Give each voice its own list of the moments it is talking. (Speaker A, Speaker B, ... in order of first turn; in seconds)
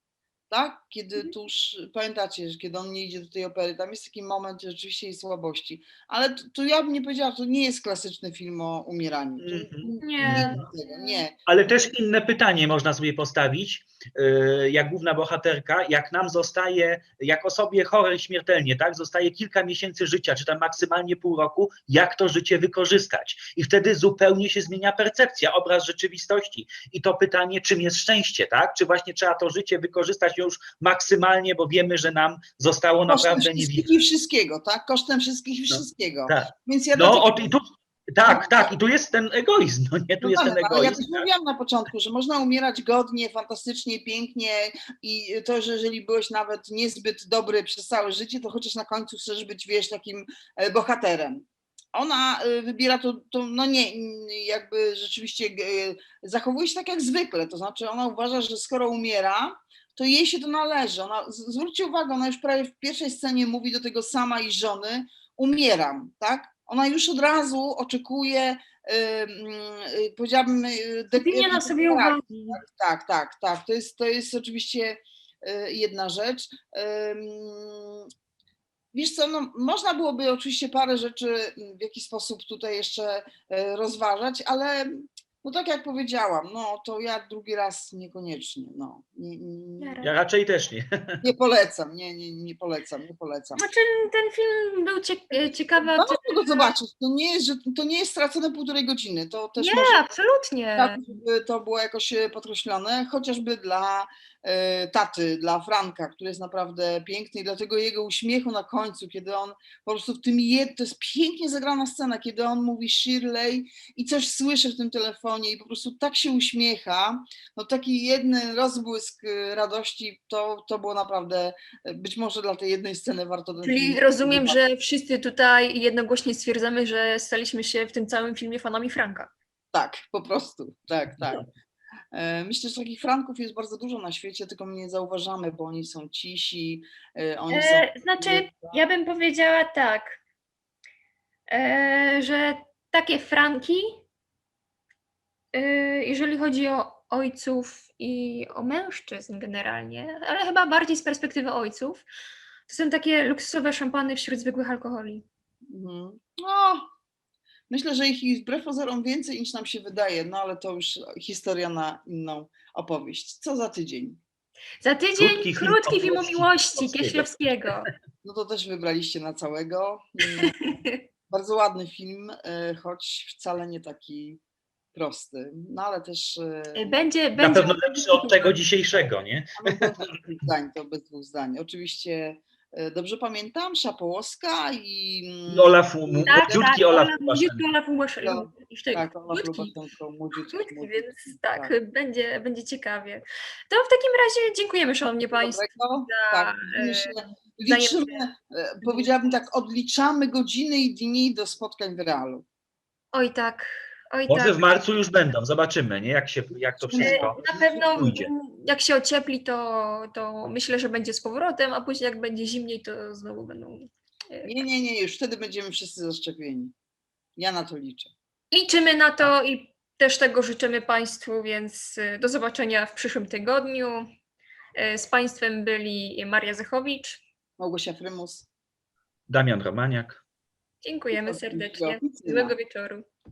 Speaker A: 0.5-11.3, 33.1-37.6, 38.2-38.7, 40.2-78.1, 78.9-90.0, 91.2-93.6, 95.8-100.0, 100.8-124.6, 129.7-131.4, 132.1-138.8, 155.7-156.8, 157.7-164.2, 168.2-170.7, 171.3-174.4, 174.9-177.0, 179.6-186.7, 188.2-191.7, 195.3-202.4, 206.8-208.1, 214.4-216.7, 217.4-218.1, 227.6-228.5, 231.1-232.5
Speaker B: 9.4-10.6, 11.5-33.9, 35.7-41.3, 90.0-90.8, 165.2-167.3, 177.4-180.2, 185.5-187.6, 204.3-208.3, 229.3-230.2
Speaker C: 9.8-11.2, 71.1-72.6, 89.8-90.1, 93.5-96.8, 99.6-101.0, 123.6-129.3, 137.5-140.2, 141.5-144.0, 145.5-152.1, 152.7-155.2, 164.8-167.9, 170.4-171.0, 176.7-178.6, 186.3-189.7, 190.4-198.2, 198.8-199.1, 203.1-204.6, 207.0-214.6, 218.5-224.1, 224.8-227.2, 230.8-233.0